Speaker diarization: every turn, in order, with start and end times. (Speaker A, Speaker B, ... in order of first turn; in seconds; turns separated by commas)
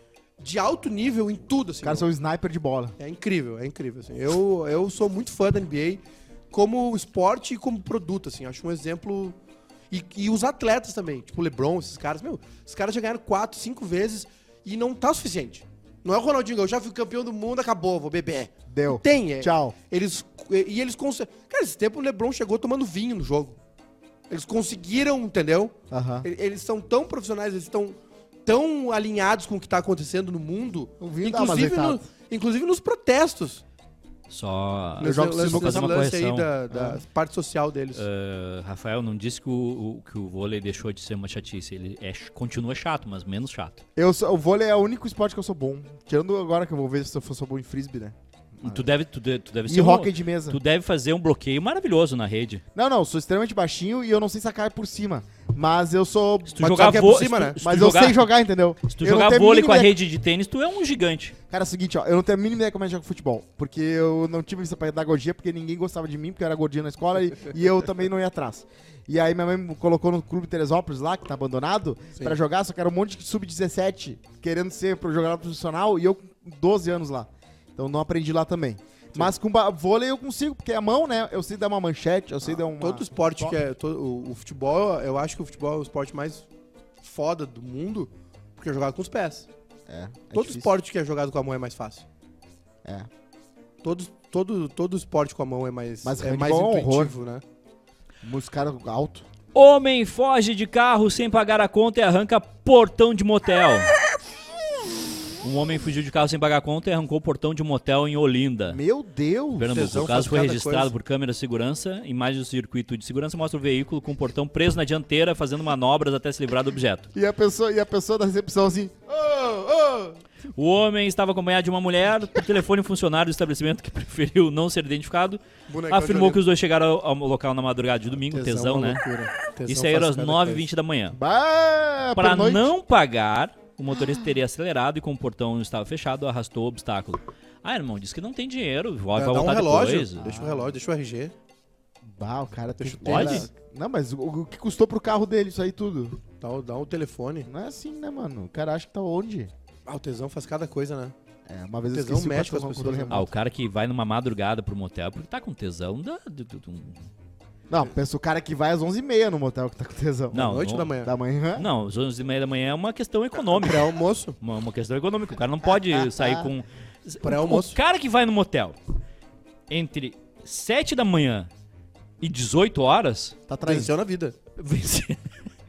Speaker A: 0.4-2.1, Speaker B: 1.8-3.0, Speaker A: 3.0-9.4, Speaker A: 9.9-23.6, Speaker B: 18.7-19.7, Speaker A: 24.3-33.6, Speaker B: 25.9-26.3, Speaker B: 31.0-32.0, Speaker C: 34.3-36.5, Speaker A: 35.0-38.0, Speaker B: 35.0-36.0, Speaker B: 36.7-37.0, Speaker C: 37.9-43.8, Speaker B: 44.0-48.9, Speaker C: 48.6-52.6, Speaker B: 49.6-50.6, Speaker B: 52.7-56.9, Speaker C: 56.5-58.2, Speaker A: 56.6-57.6, Speaker B: 57.6-60.0, Speaker C: 58.9-61.4, Speaker B: 61.5-83.6, Speaker A: 82.5-86.5, Speaker A: 87.0-89.5, Speaker B: 89.9-90.7, Speaker A: 90.3-92.0, Speaker B: 92.8-93.1, Speaker A: 93.8-97.4, Speaker B: 96.0-97.1, Speaker B: 98.2-99.2, Speaker C: 99.5-103.9, Speaker C: 105.4-108.8, Speaker B: 108.7-109.8, Speaker C: 109.6-117.1, Speaker A: 109.7-110.9, Speaker B: 117.1-120.2, Speaker C: 120.5-129.0, Speaker A: 125.7-126.4, Speaker A: 128.3-130.7, Speaker C: 129.7-131.2, Speaker B: 131.1-132.7, Speaker C: 132.2-140.2, Speaker B: 133.9-134.3, Speaker A: 139.2-141.3, Speaker B: 140.2-140.8, Speaker B: 142.0-146.2, Speaker A: 142.8-143.5, Speaker C: 143.0-143.4, Speaker A: 146.4-147.5, Speaker B: 147.4-149.5, Speaker A: 149.8-151.1, Speaker B: 151.5-153.3, Speaker A: 151.9-153.3, Speaker C: 153.1-157.1, Speaker B: 157.7-161.7, Speaker C: 160.3-160.9, Speaker A: 160.3-161.1, Speaker C: 161.6-168.8, Speaker A: 163.5-164.4, Speaker B: 165.7-166.5, Speaker A: 167.2-167.8, Speaker C: 169.7-171.5, Speaker C: 172.2-173.3, Speaker B: 173.5-173.9, Speaker A: 173.6-174.3, Speaker C: 174.6-175.3